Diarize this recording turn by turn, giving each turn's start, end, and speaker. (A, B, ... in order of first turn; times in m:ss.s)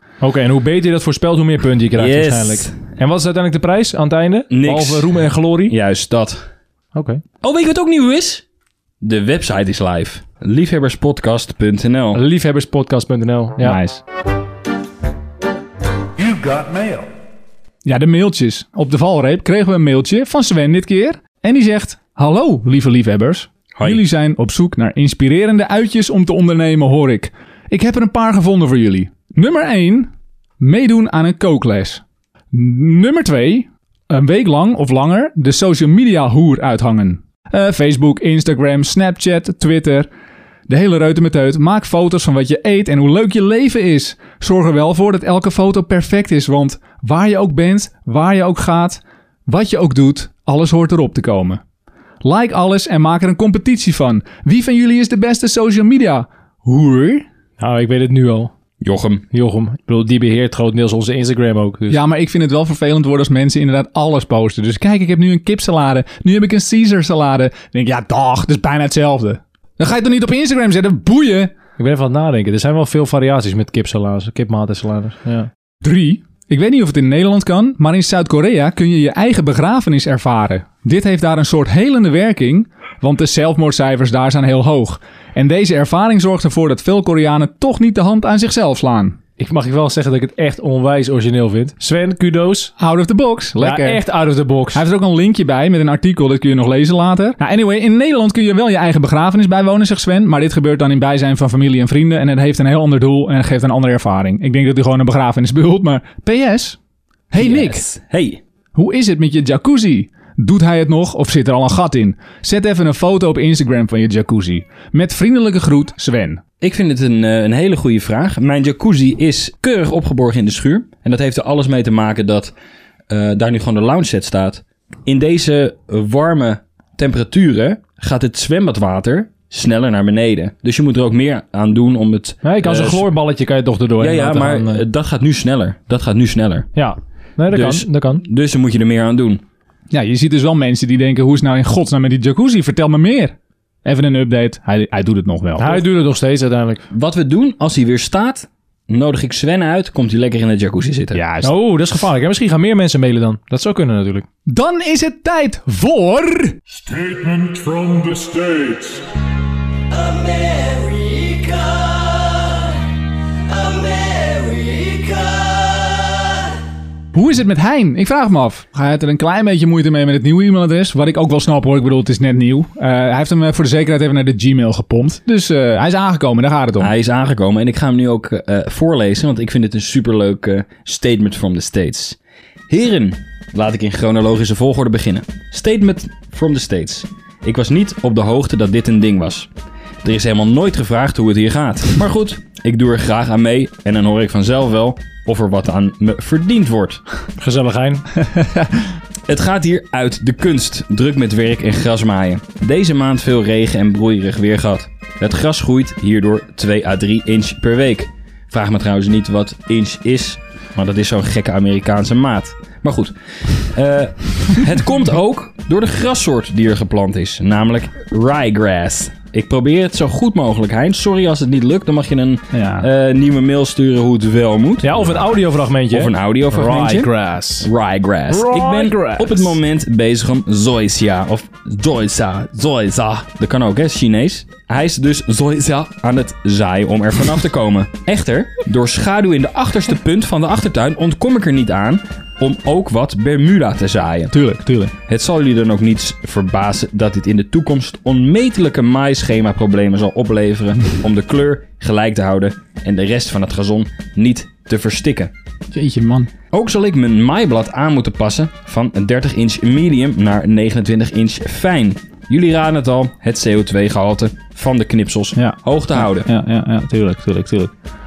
0:00.2-0:05.7 A
0:02.0-0:02.8 B
0:04.5-0:05.2 B
0:05.7-0:06.5 B
0:06.9-0:07.2 A
0:07.4-0:08.4 B
0:09.0-0:12.2 B
0:12.1-0:13.8 A
0:13.6-0:14.0 C
0:16.2-0:16.9 A
0:16.3-0:16.9 C
0:17.8-0:40.1 C
0:40.7-0:51.6 C
0:52.2-0:57.3 C
0:57.6-0:58.5 A
0:58.8-0:59.2 B
0:59.3-1:02.0 A
1:01.9-1:11.5 C
1:11.8-1:15.5 A
1:15.8-1:29.2 C
1:29.4-1:32.7 A
1:32.8-1:34.0 C
1:33.6-1:34.8 A
1:34.7-1:46.8 C
1:47.3-1:47.8 C
1:47.3-1:48.4 B
1:48.7-1:56.4 C
1:56.6-2:02.5 B
2:03.1-2:13.0 B
2:12.4-2:14.8 A
2:14.0-2:16.7 B
2:16.7-2:18.2 A
2:17.5-2:19.4 B
2:19.9-2:25.8 C
2:25.6-2:26.8 A
2:26.9-2:31.2 B
2:31.1-2:31.5 C
2:31.4-2:34.2 A
2:34.5-2:36.6 C
2:36.7-2:39.0 D
2:40.0-2:42.6 E
2:43.5-2:46.2 E
2:47.1-2:56.9 C
2:56.8-3:02.2 B
3:02.7-3:09.5 B
3:10.0-3:17.0 B
3:17.4-3:18.0 A
3:18.2-3:18.7 C
3:19.3-3:44.9 B
3:42.5-3:42.9 C
3:44.8-3:47.7 A
3:45.9-3:47.1 B
3:46.5-3:47.1 C
3:47.6-4:04.4 B
3:48.3-3:49.4 C
3:48.4-3:49.2 A
4:04.3-4:04.9 C
4:05.1-4:15.3 B
4:15.7-4:16.3 C
4:16.5-4:26.3 B
4:25.3-4:27.7 C